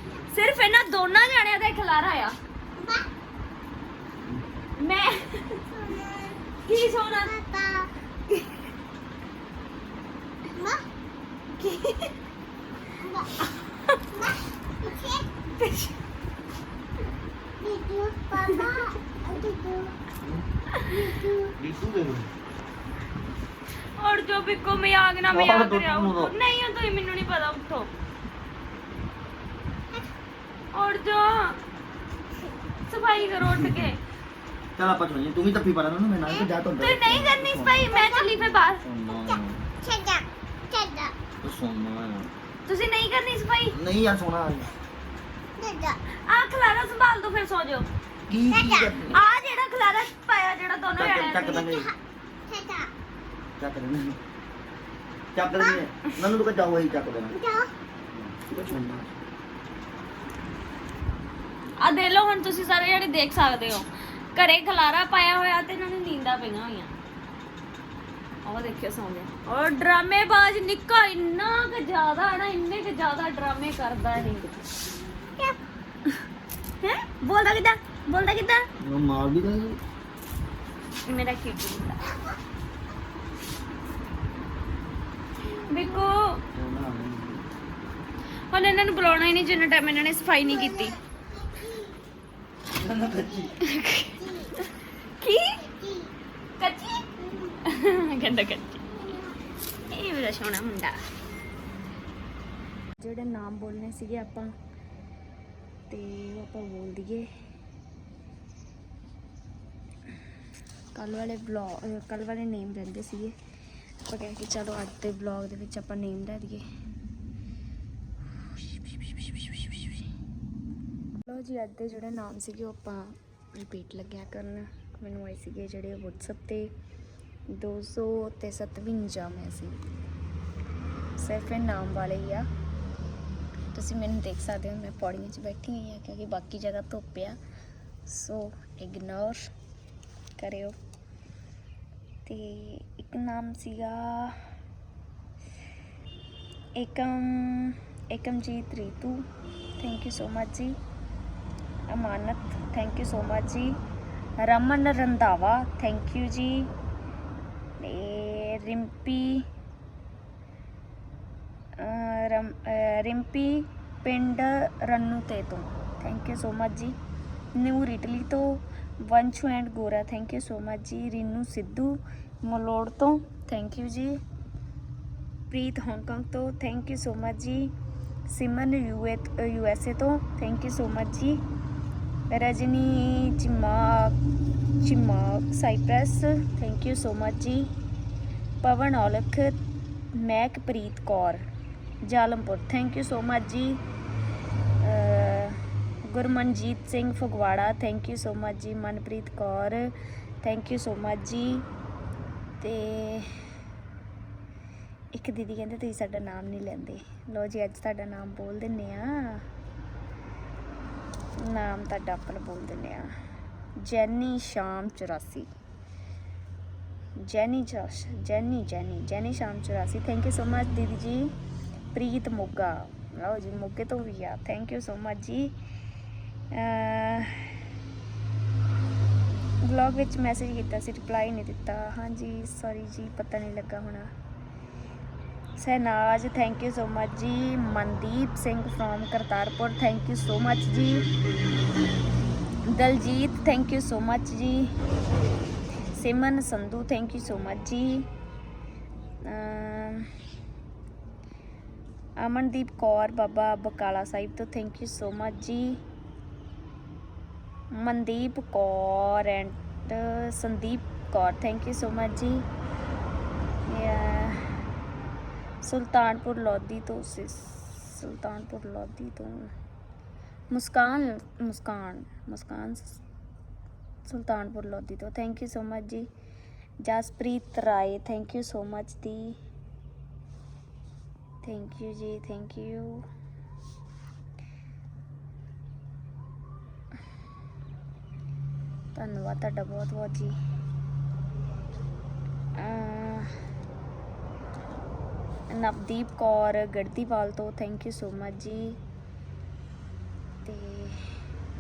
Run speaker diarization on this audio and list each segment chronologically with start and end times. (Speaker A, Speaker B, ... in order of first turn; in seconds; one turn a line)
Speaker A: 0.3-2.4
Speaker B: 2.8-3.0
Speaker A: 4.8-5.7
Speaker B: 5.8-6.4
Speaker A: 6.7-7.3
Speaker B: 7.3-7.9
Speaker B: 10.5-10.8
Speaker A: 11.6-12.1
Speaker B: 13.0-13.3
Speaker B: 14.2-15.3
Speaker A: 15.6-15.9
Speaker B: 17.6-19.9
Speaker A: 18.4-18.7
Speaker B: 20.9-21.5
Speaker C: 21.6-22.3
Speaker A: 24.0-27.9
Speaker C: 25.3-26.3
Speaker A: 30.7-31.6
Speaker A: 32.9-34.0
Speaker C: 33.5-33.9
Speaker C: 34.8-37.9
Speaker A: 36.8-38.8
Speaker B: 37.9-38.3
Speaker C: 38.7-39.7
Speaker B: 39.1-41.1
Speaker C: 41.4-42.3
Speaker A: 42.7-43.8
Speaker C: 43.7-44.7
Speaker B: 45.6-46.0
Speaker A: 46.3-47.9
Speaker C: 48.3-49.2
Speaker B: 48.5-49.0
Speaker A: 49.1-51.8
Speaker C: 51.0-51.9
Speaker B: 52.5-52.9
Speaker C: 53.6-54.2
Speaker C: 55.3-57.4
Speaker B: 57.4-57.7
Speaker C: 58.1-59.1
Speaker A: 61.8-67.0
Speaker A: 68.5-74.5
Speaker A: 76.8-78.7
Speaker C: 78.8-79.8
Speaker A: 81.0-82.0
Speaker A: 85.5-86.4
Speaker C: 86.5-87.4
Speaker A: 88.5-91.0
Speaker B: 90.5-90.9
Speaker B: 91.4-91.9
Speaker C: 92.7-93.5
Speaker A: 93.6-95.6
Speaker B: 95.7-96.1
Speaker A: 96.6-97.1
Speaker A: 97.6-99.0
Speaker A: 99.9-101.0
Speaker A: 103.0-104.5
Speaker A: 105.9-107.3
Speaker A: 111.0-113.3
Speaker A: 114.1-116.6
Speaker A: 118.6-120.1
Speaker A: 121.3-126.7
Speaker A: 127.5-129.8
Speaker A: 131.2-132.5
Speaker A: 133.7-137.4
Speaker A: 138.1-139.5
Speaker A: 140.4-140.8
Speaker A: 142.3-144.4
Speaker A: 146.8-149.2
Speaker A: 149.8-150.8
Speaker A: 151.9-153.8
Speaker A: 154.4-156.7
Speaker A: 157.8-159.4
Speaker A: 161.8-167.0
Speaker A: 167.6-174.2
Speaker A: 175.5-177.7
Speaker A: 178.3-181.4
Speaker A: 182.3-184.2
Speaker A: 184.8-187.7
Speaker A: 188.6-189.6
Speaker A: 190.2-191.4
Speaker A: 192.1-193.8
Speaker A: 194.8-195.6
Speaker A: 196.1-199.9
Speaker A: 200.4-201.6
Speaker A: 202.6-203.3
Speaker A: 205.1-209.4
Speaker A: 211.4-213.1
Speaker A: 213.8-215.5
Speaker A: 217.2-221.3
Speaker A: 221.9-225.5
Speaker A: 226.5-227.5
Speaker A: 229.6-234.1
Speaker A: 235.6-241.1
Speaker A: 242.7-244.7
Speaker A: 245.9-248.1
Speaker A: 249.2-250.1
Speaker A: 252.2-255.8
Speaker A: 257.7-262.4
Speaker A: 263.7-264.4
Speaker A: 265.6-269.5
Speaker A: 270.5-273.0
Speaker A: 274.1-276.1
Speaker A: 276.8-279.4
Speaker A: 281.4-283.1
Speaker A: 288.9-290.4
Speaker A: 292.6-293.3
Speaker A: 295.5-298.8
Speaker A: 300.4-301.0